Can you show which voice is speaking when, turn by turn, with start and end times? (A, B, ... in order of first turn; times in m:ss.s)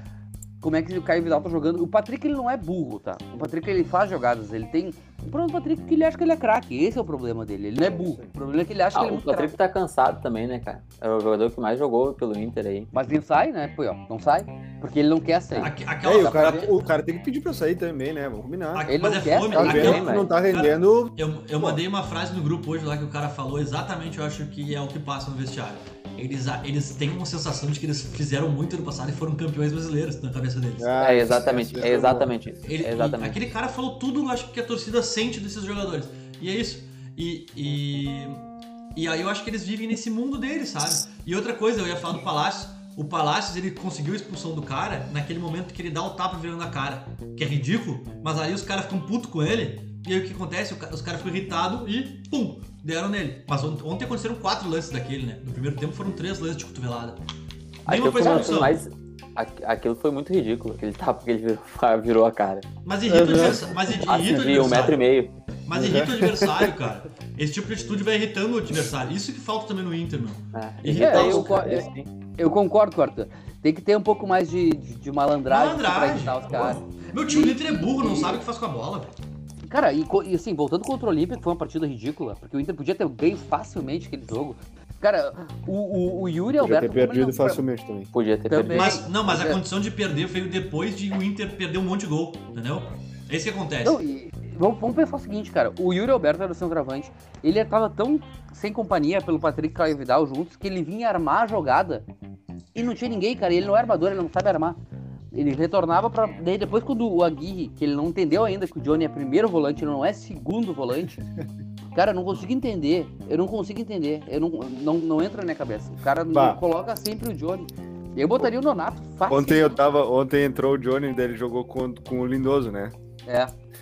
0:00.6-0:09.5 A
0:07.8-0:08.3 B
0:08.9-0:12.9 C
0:12.9-0:16.7 A
0:15.6-0:16.9 D
0:16.0-0:18.9 B
0:18.7-0:31.0 D
0:18.9-0:20.0 A
0:19.6-0:20.3 C
0:19.6-0:21.8 B
0:30.8-0:32.3 B
0:31.0-0:33.4 C
0:32.6-0:38.4 D
0:38.9-0:57.2 D
0:57.8-0:58.8 D
0:57.8-1:02.7 C
1:02.8-1:05.0 D
1:03.1-1:03.7 A
1:03.2-1:03.5 B
1:04.0-1:05.4 C
1:05.6-1:11.6 D
1:05.7-1:06.7 B
1:10.5-1:12.1 C
1:10.9-1:18.4 A
1:15.5-1:19.1 D
1:19.7-1:27.6 A
1:26.5-1:28.1 B
1:28.1-1:29.1 C
1:28.5-1:29.6 A
1:28.7-1:34.0 D
1:33.8-1:42.1 A
1:42.7-1:44.8 A
1:45.3-1:51.2 A
1:51.9-1:59.8 A
1:56.3-1:56.6 B
1:59.3-2:02.9 B
2:03.2-2:03.5 A